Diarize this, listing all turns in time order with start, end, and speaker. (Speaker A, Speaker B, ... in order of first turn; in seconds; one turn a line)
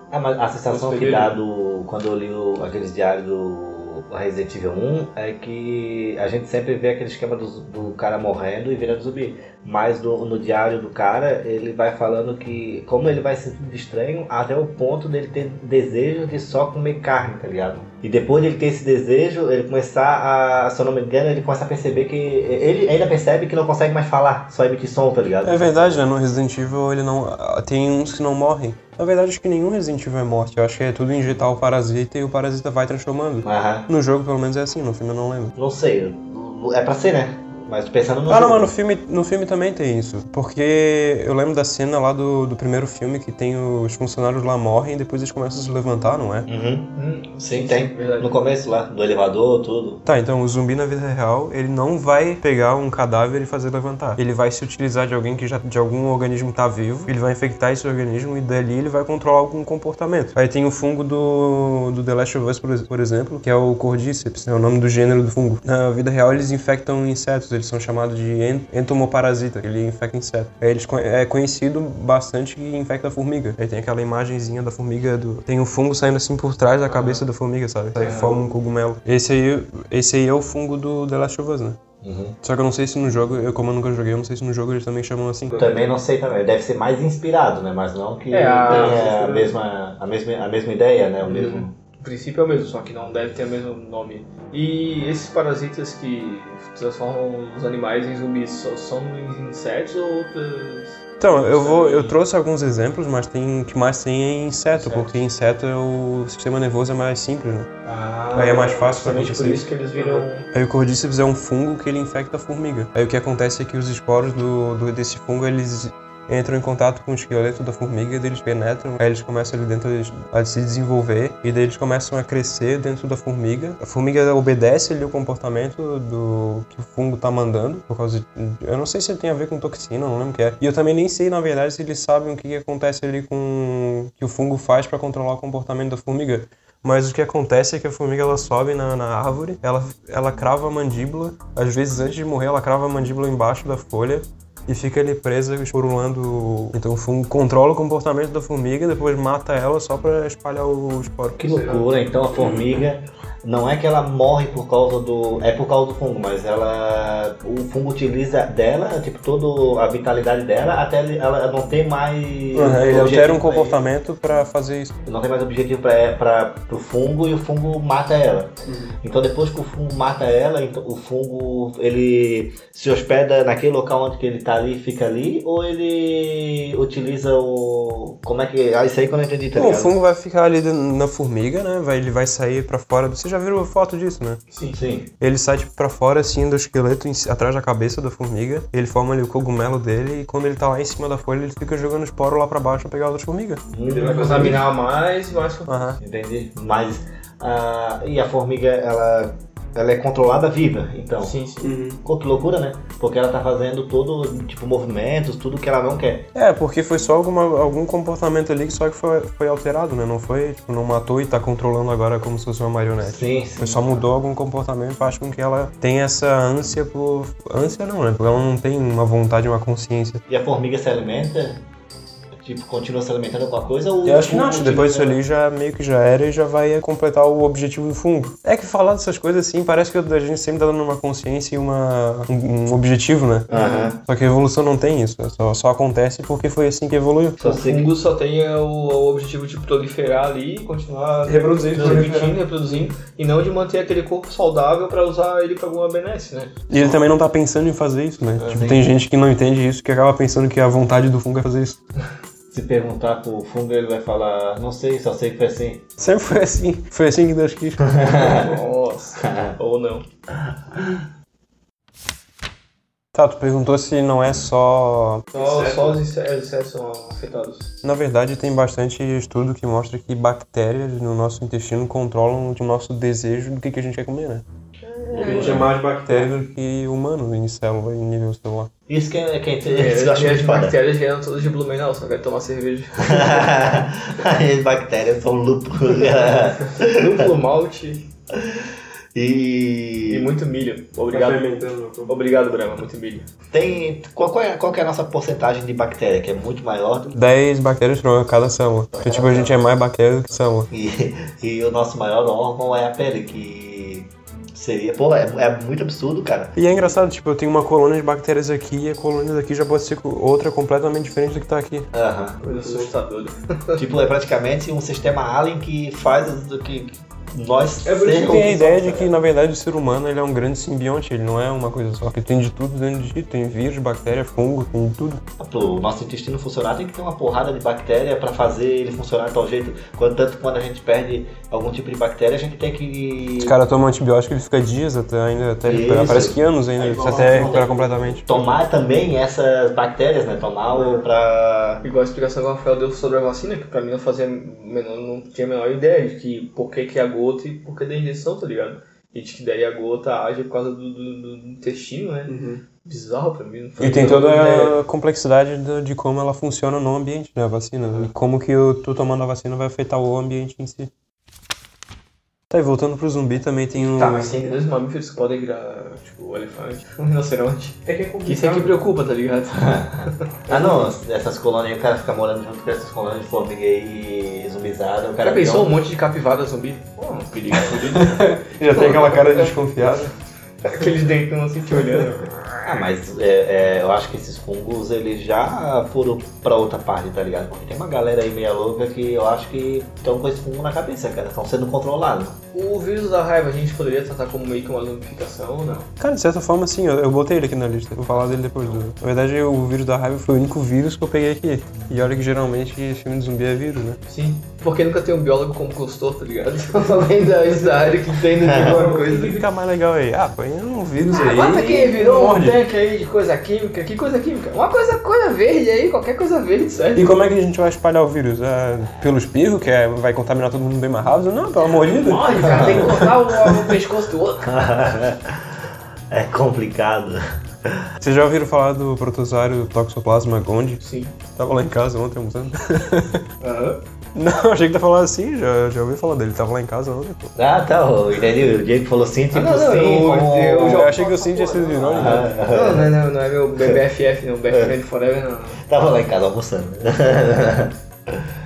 Speaker A: 0.1-25.7
Speaker B: 0.7-1.4
Speaker C: 25.4-35.5
Speaker A: 33.4-33.9
Speaker A: 35.6-38.7
Speaker C: 38.3-46.5
Speaker A: 46.5-50.0
Speaker B: 47.0-48.4
Speaker C: 50.0-81.8
Speaker B: 76.9-77.2
Speaker B: 78.0-78.3
Speaker A: 82.0-82.4
Speaker C: 82.4-85.6
Speaker B: 85.5-85.8
Speaker A: 85.5-91.7
Speaker B: 88.3-89.5
Speaker C: 88.7-89.0
Speaker B: 91.2-102.2
Speaker C: 101.2-107.7
Speaker A: 104.8-105.2
Speaker B: 107.9-110.5
Speaker C: 108.3-151.6
Speaker A: 151.4-163.8
Speaker B: 151.4-151.9
Speaker C: 152.4-152.8
Speaker C: 162.5-164.9
Speaker A: 165.1-180.0
Speaker C: 179.6-184.4
Speaker B: 184.5-184.8
Speaker A: 184.7-185.1
Speaker C: 185.2-194.6
Speaker A: 193.7-194.6
Speaker B: 193.8-196.0
Speaker C: 195.7-196.0
Speaker A: 196.0-201.3
Speaker B: 201.2-201.7
Speaker C: 201.6-202.0
Speaker A: 202.0-206.3
Speaker C: 206.3-220.2
Speaker A: 213.0-213.9
Speaker A: 220.3-221.6
Speaker A: 222.4-225.2
Speaker C: 224.1-233.5
Speaker B: 233.5-233.9
Speaker A: 233.5-234.0
Speaker C: 234.0-237.4
Speaker A: 237.4-237.9
Speaker B: 237.4-246.6
Speaker C: 241.3-242.4
Speaker C: 246.7-251.8
Speaker A: 248.4-248.9
Speaker A: 252.5-256.0
Speaker C: 256.0-258.1
Speaker A: 257.8-258.6
Speaker B: 258.1-260.1
Speaker A: 259.2-259.6
Speaker A: 260.7-261.0
Speaker C: 263.1-266.0
Speaker B: 265.3-267.7
Speaker C: 267.8-274.4
Speaker B: 274.9-275.6
Speaker A: 275.1-275.7
Speaker C: 275.1-278.7
Speaker A: 278.9-280.8
Speaker B: 279.7-283.8
Speaker A: 283.0-287.3
Speaker B: 286.7-288.1
Speaker A: 288.3-290.3
Speaker B: 290.1-291.4
Speaker C: 291.1-292.1
Speaker B: 292.1-293.3
Speaker A: 293.5-297.1
Speaker C: 297.1-300.7
Speaker A: 298.9-299.6
Speaker A: 300.7-306.6
Speaker C: 306.6-311.9
Speaker A: 311.9-312.4
Speaker B: 312.4-313.8
Speaker C: 312.5-312.9
Speaker A: 313.8-319.1
Speaker B: 317.9-318.7
Speaker C: 318.1-325.2
Speaker A: 325.4-333.6
Speaker C: 333.4-338.5
Speaker A: 335.6-341.8
Speaker B: 336.8-337.9
Speaker B: 340.7-341.0
Speaker B: 341.8-354.8
Speaker C: 352.3-352.6
Speaker C: 353.8-360.9
Speaker C: 362.5-364.4
Speaker B: 363.8-370.8
Speaker C: 367.9-368.8
Speaker A: 369.6-375.7
Speaker B: 375.2-379.6
Speaker C: 377.6-380.1
Speaker B: 380.6-382.4
Speaker A: 382.6-392.4
Speaker B: 392.5-395.9
Speaker C: 396.0-404.0
Speaker B: 404.1-409.4
Speaker A: 408.4-408.9
Speaker C: 408.5-412.6
Speaker B: 411.1-417.1
Speaker C: 417.0-423.5
Speaker B: 421.8-424.6
Speaker A: 422.3-423.1
Speaker A: 424.4-425.6
Speaker A: 426.1-427.9
Speaker C: 428.0-430.8
Speaker B: 430.8-431.2
Speaker C: 431.3-433.2
Speaker B: 433.4-433.8
Speaker C: 434.1-437.3
Speaker A: 437.4-440.9
Speaker B: 439.3-445.6
Speaker C: 440.6-442.3
Speaker A: 441.9-442.9
Speaker A: 445.7-448.3